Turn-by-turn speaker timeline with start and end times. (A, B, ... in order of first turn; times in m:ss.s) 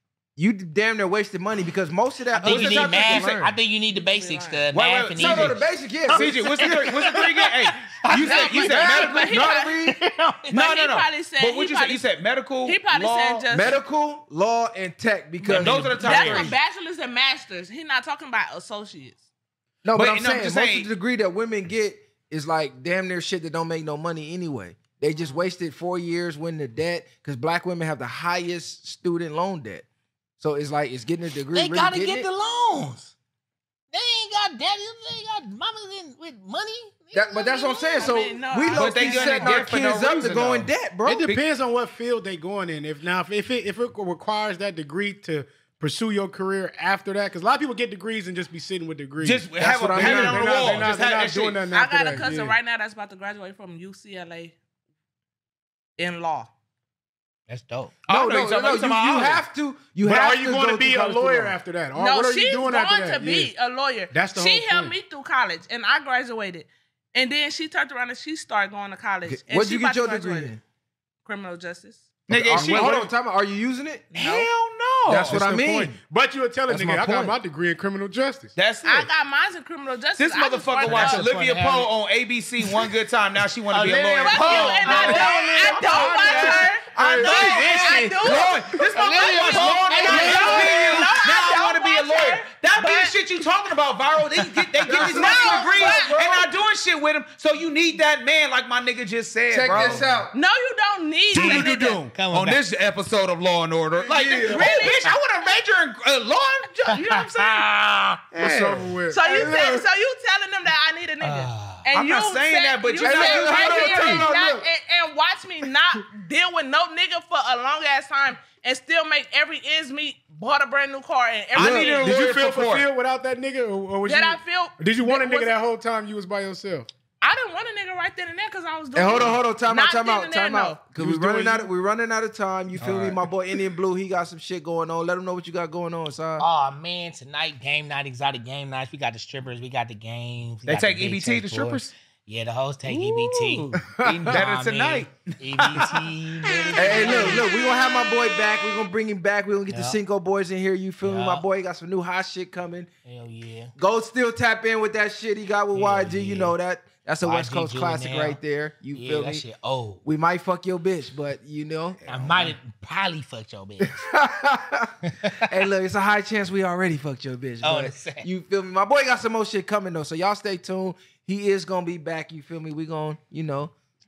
0:00.4-0:03.6 A
0:02.4-0:10.5 B
0:02.4-0:03.4 C
0:03.9-0:04.7 D
0:04.7-0:09.4 C
0:05.2-0:06.5 A
0:08.1-0:10.0 A
0:08.2-0:09.7 D
0:10.5-0:12.0 D
0:10.5-0:13.5 C
0:12.6-0:13.8 D
0:13.5-0:16.0 A
0:15.4-0:16.6 C
0:15.4-0:16.5 B
0:16.0-0:19.2 D
0:19.8-0:29.8 A
0:19.9-0:20.9 C
0:30.4-0:32.3 A
0:31.5-0:33.1 B
0:33.9-0:38.1 B
0:37.1-0:41.3 A
0:37.5-0:39.9 D
0:38.7-0:40.7 C
0:41.1-0:52.6 E
0:49.2-0:51.6 C
0:49.6-0:50.9 A
0:51.7-0:54.6 D
0:56.0-0:56.5 D
0:57.5-0:57.9 B
0:58.1-0:59.4 C
0:58.1-1:01.6 A
1:00.0-1:03.5 E
1:02.0-1:10.5 D
1:04.1-1:05.0 E
1:09.3-1:10.6 A
1:11.2-1:12.0 D
1:12.3-1:13.1 C
1:12.3-1:14.1 A
1:14.1-1:14.5 D
1:14.1-1:15.4 C
1:15.1-1:16.0 A
1:15.1-1:18.6 E
1:16.7-1:17.4 A
1:18.6-1:19.1 C
1:18.8-1:21.2 D
1:20.2-1:40.1 C
1:20.8-1:21.9 B
1:23.7-1:28.3 B
1:24.2-1:33.2 D
1:26.3-1:28.0 E
1:28.9-1:31.1 B
1:30.2-1:30.7 A
1:34.4-1:34.7 B
1:34.8-1:36.5 A
1:34.9-1:36.2 D
1:39.5-1:40.3 A
1:40.3-1:42.0 D
1:41.3-1:47.7 C
1:41.4-1:42.6 B
1:44.0-1:44.9 A
1:44.4-1:45.1 D
1:46.9-1:48.2 B
1:48.3-1:48.9 C
1:48.4-1:49.8 E
1:49.1-2:02.3 D
1:49.3-1:49.8 A
1:51.2-1:51.9 B
1:51.9-1:54.3 C
1:53.0-1:54.7 A
2:01.5-2:02.9 C
2:01.6-2:02.2 A
2:02.0-2:06.9 E
2:04.0-2:05.6 D
2:07.2-2:10.8 D
2:08.9-2:16.5 A
2:11.0-2:11.7 E
2:12.8-2:13.1 C
2:16.4-2:27.4 B
2:20.7-2:21.9 C
2:22.9-2:26.0 C
2:23.7-2:24.4 A
2:26.8-2:32.9 A
2:29.7-2:30.0 B
2:31.0-2:31.4 B
2:33.0-2:33.8 B
2:33.8-2:39.4 A
2:35.7-2:36.6 B
2:37.2-2:38.4 B
2:38.9-2:40.0 B
2:40.0-2:42.5 A
2:42.1-2:44.0 B
2:42.1-2:42.5 C
2:43.8-2:53.7 A
2:45.0-2:45.5 B
2:47.6-2:48.3 B